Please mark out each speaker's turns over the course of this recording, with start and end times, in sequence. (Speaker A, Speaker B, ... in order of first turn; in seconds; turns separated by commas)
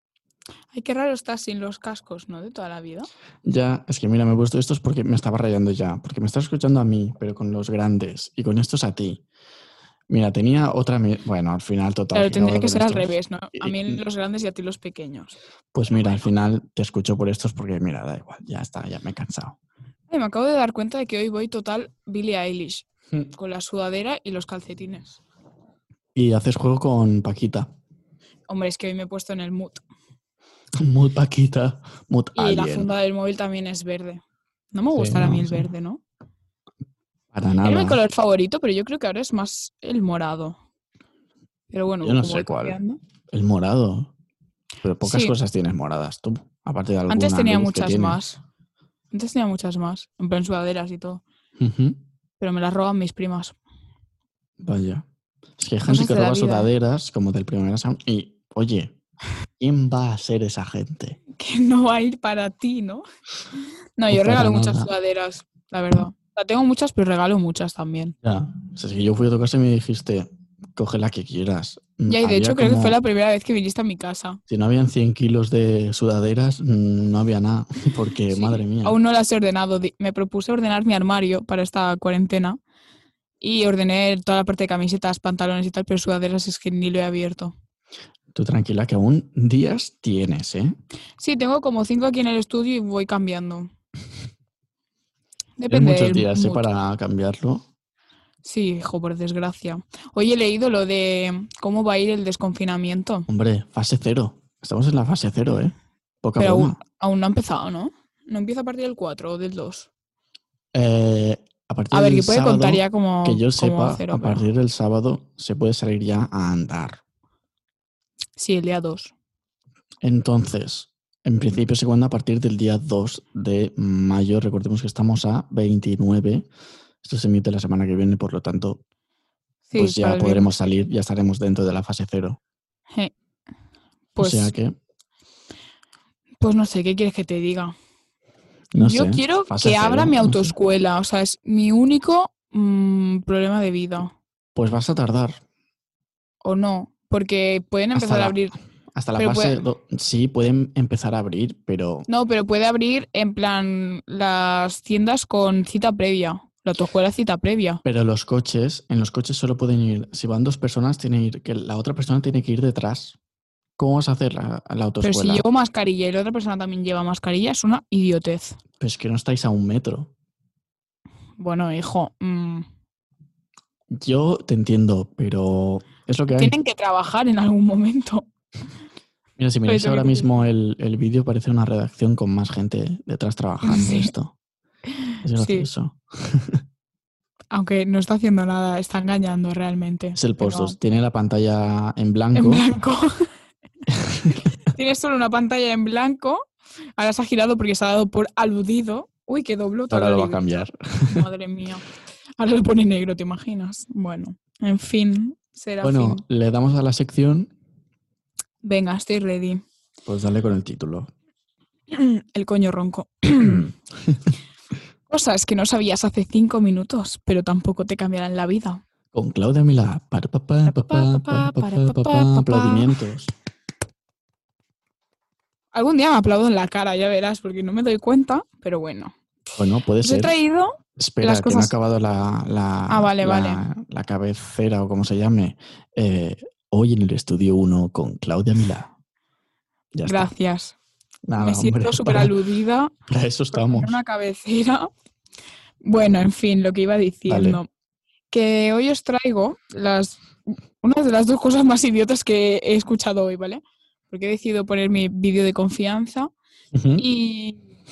Speaker A: 0.7-3.1, Speaker B: 3.4-9.2, Speaker B: 10.1-14.0, Speaker A: 12.1-15.4, Speaker B: 15.7-19.6, Speaker A: 15.9-16.3, Speaker A: 20.1-25.2, Speaker B: 26.1-27.7, Speaker A: 28.5-29.8, Speaker B: 30.8-32.9, Speaker A: 32.3-36.0, Speaker B: 34.9-35.7, Speaker B: 37.3-38.0, Speaker A: 37.6-40.6, Speaker A: 41.7-43.0, Speaker B: 42.0-42.8, Speaker B: 43.3-44.1, Speaker B: 44.8-48.2, Speaker A: 45.0-45.3, Speaker A: 47.1-48.4, Speaker A: 49.1-51.2, Speaker B: 51.6-52.0, Speaker A: 52.4-53.5, Speaker B: 54.6-55.0, Speaker B: 55.6-59.0, Speaker A: 55.9-56.7, Speaker B: 59.6-61.2, Speaker A: 61.4-63.0, Speaker A: 64.0-68.1, Speaker B: 64.1-64.9, Speaker B: 68.2-73.0, Speaker A: 72.1-74.4, Speaker B: 74.5-79.0, Speaker A: 78.3-82.6, Speaker A: 83.4-87.5, Speaker B: 88.3-90.7, Speaker A: 91.2-93.7, Speaker A: 95.6-96.6, Speaker B: 95.7-97.7, Speaker A: 98.4-103.3, Speaker B: 103.3-106.8, Speaker A: 106.4-109.9, Speaker B: 110.7-117.0, Speaker A: 111.9-114.4, Speaker A: 118.4-119.1, Speaker B: 120.0-126.5, Speaker B: 127.0-128.8, Speaker A: 129.7-130.5, Speaker B: 129.7-132.4, Speaker A: 134.1-134.5, Speaker B: 134.2-134.8, Speaker A: 136.4-137.7, Speaker B: 138.7-140.5, Speaker A: 138.8-144.1, Speaker B: 144.5-145.4, Speaker A: 146.4-148.5, Speaker B: 147.9-148.4, Speaker B: 148.9-152.1, Speaker A: 149.2-149.6, Speaker A: 152.1-157.8, Speaker B: 157.8-163.2, Speaker B: 163.8-165.4, Speaker A: 165.0-168.6, Speaker B: 168.8-170.1, Speaker A: 171.4-172.6, Speaker B: 173.9-176.5, Speaker A: 176.3-178.3, Speaker B: 179.4-184.3, Speaker A: 179.7-180.3, Speaker A: 183.6-184.1, Speaker B: 185.2-186.6, Speaker A: 185.3-185.7, Speaker A: 187.5-190.8, Speaker B: 190.1-192.6, Speaker A: 192.3-193.3, Speaker B: 193.9-194.5, Speaker A: 194.7-200.4, Speaker B: 199.9-201.2, Speaker A: 201.1-201.8, Speaker A: 202.4-206.2, Speaker B: 205.8-207.5, Speaker A: 208.6-209.6, Speaker B: 210.1-211.1, Speaker A: 211.9-213.7, Speaker B: 213.4-214.3, Speaker A: 215.1-218.8, Speaker B: 219.1-223.3, Speaker A: 220.6-223.0, Speaker A: 225.7-229.1, Speaker B: 229.6-230.3, Speaker A: 230.0-231.7, Speaker B: 231.0-238.9, Speaker A: 232.9-233.6, Speaker B: 239.9-240.3, Speaker A: 240.1-240.8, Speaker B: 241.3-242.3, Speaker A: 241.4-242.9, Speaker B: 243.1-244.0, Speaker A: 243.5-244.9, Speaker A: 245.8-247.7, Speaker B: 247.3-247.6, Speaker A: 248.3-256.3, Speaker B: 256.7-257.0, Speaker A: 257.0-257.6